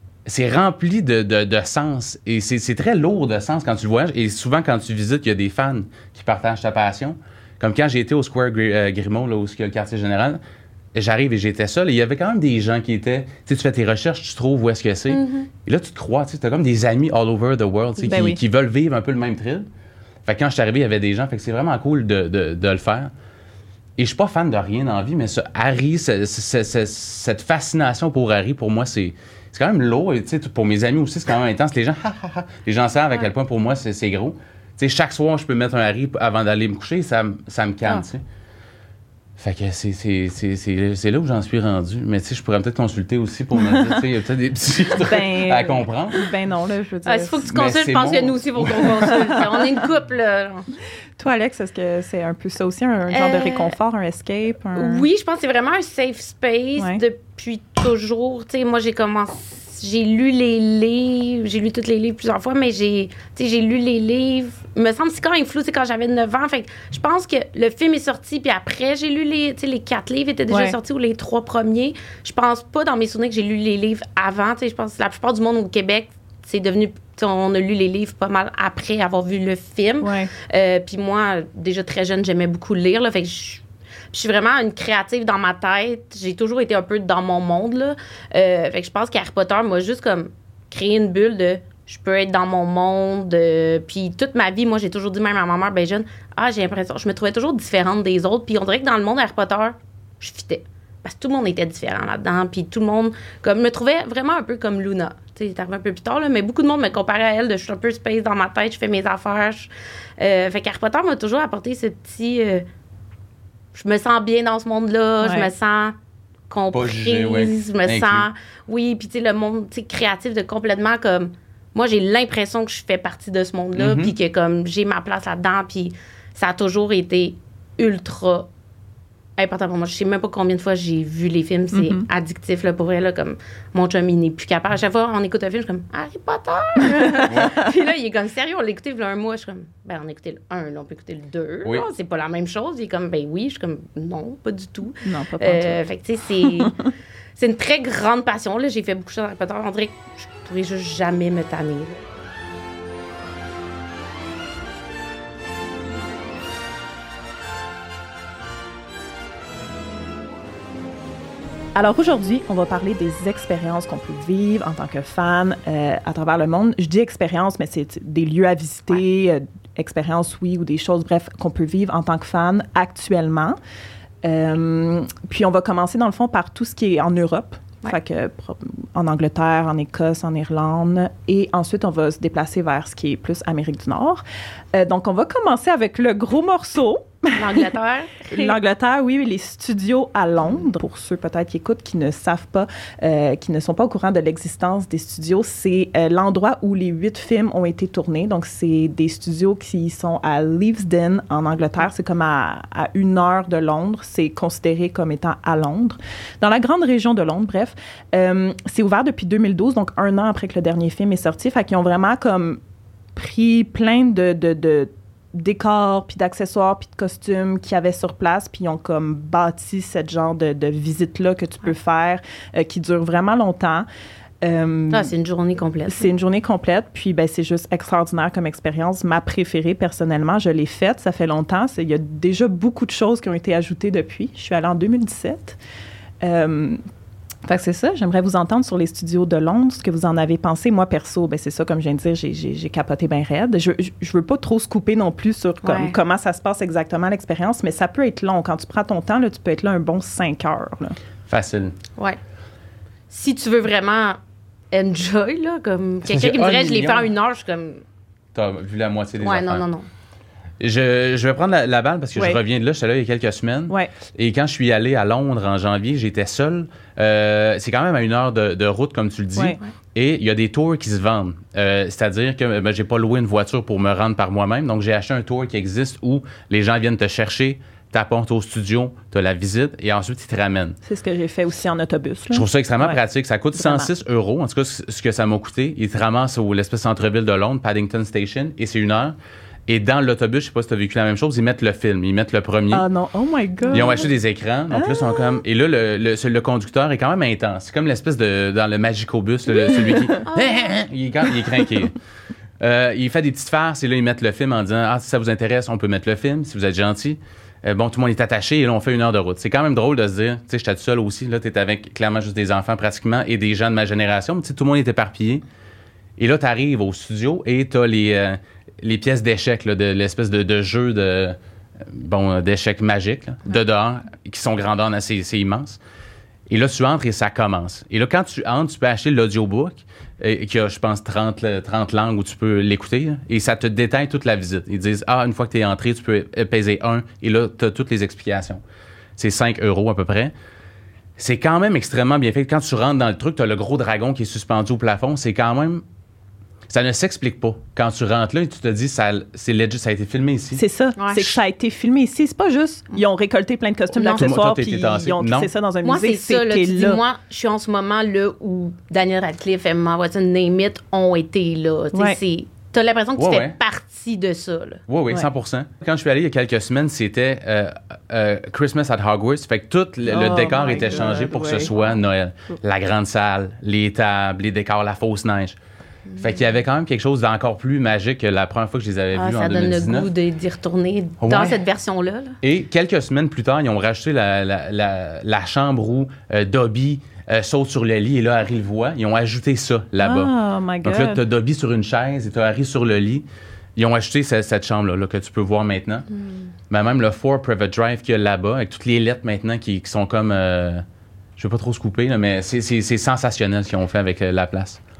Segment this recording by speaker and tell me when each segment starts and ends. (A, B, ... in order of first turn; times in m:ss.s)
0:00.2-0:10.4 A
0:10.9-0:19.7 A
0:15.1-0:15.5 B
0:18.0-0:18.4 C
0:20.2-0:23.1 A
0:24.0-0:38.2 A
0:39.4-0:46.3 A
0:43.7-0:44.0 C
0:44.9-0:47.4 C
0:47.0-0:50.7 B
0:47.5-0:49.2 A
0:49.0-0:49.7 C
0:51.2-0:55.0 C
0:53.1-0:53.7 B
0:54.7-1:52.6 B
0:56.8-0:57.0 C
1:10.5-1:10.8 C
1:20.0-1:20.3 C
1:53.7-1:56.0 B
1:55.2-1:55.5 C
1:56.5-2:08.5 B
1:56.7-1:58.3 A
2:03.8-2:04.1 A
2:09.4-2:26.8 B
2:11.7-2:12.0 C
2:16.9-2:17.2 C
2:17.3-2:17.6 A
2:25.0-2:25.8 C
2:26.6-2:26.9 C
2:27.4-2:32.0 B
2:41.8-2:53.6 C
2:54.2-3:04.2 C
3:04.7-3:07.7 C
3:07.4-3:08.6 B
3:08.2-3:32.6 C
3:33.2-3:43.8 C
3:44.4-3:45.1 C
3:44.9-3:46.1 B
3:45.9-3:55.6 C
3:56.2-3:56.8 C
3:57.5-4:11.0 C
4:05.6-4:06.0 B
4:11.3-4:11.8 A
4:13.1-4:14.2 B
4:14.7-4:17.8 B
4:16.1-4:17.1 A
4:18.3-4:19.6 A
4:19.2-4:19.8 B
4:20.6-4:40.8 A
4:40.8-4:43.0 C
4:42.3-4:49.1 A
4:43.5-4:43.9 C
4:49.7-4:52.8 A
4:52.7-4:54.1 C
4:53.7-5:01.9 A
4:54.7-4:55.4 C
4:59.9-5:00.2 C
5:00.2-5:00.7 B
5:02.6-5:15.4 A
5:16.2-5:25.8 A
5:26.5-5:38.6 A
5:39.2-5:40.3 A
5:41.2-5:45.8 A
5:46.7-5:50.6 A
5:50.5-5:57.0 C
5:51.0-5:51.3 B
5:54.0-5:55.5 A
5:54.0-5:54.2 B
5:55.8-6:04.8 B
6:01.9-6:02.2 C
6:03.2-6:03.6 A
6:04.9-6:15.6 A
6:10.1-6:11.7 C
6:16.1-6:16.4 B
6:16.2-6:20.1 A
6:19.1-6:22.4 B
6:21.2-6:21.6 A
6:22.4-6:30.3 A
6:30.0-6:31.2 C
6:30.8-6:33.2 A
6:33.8-6:36.1 A
6:36.2-6:36.5 B
6:36.7-6:40.8 A
6:41.4-6:44.8 A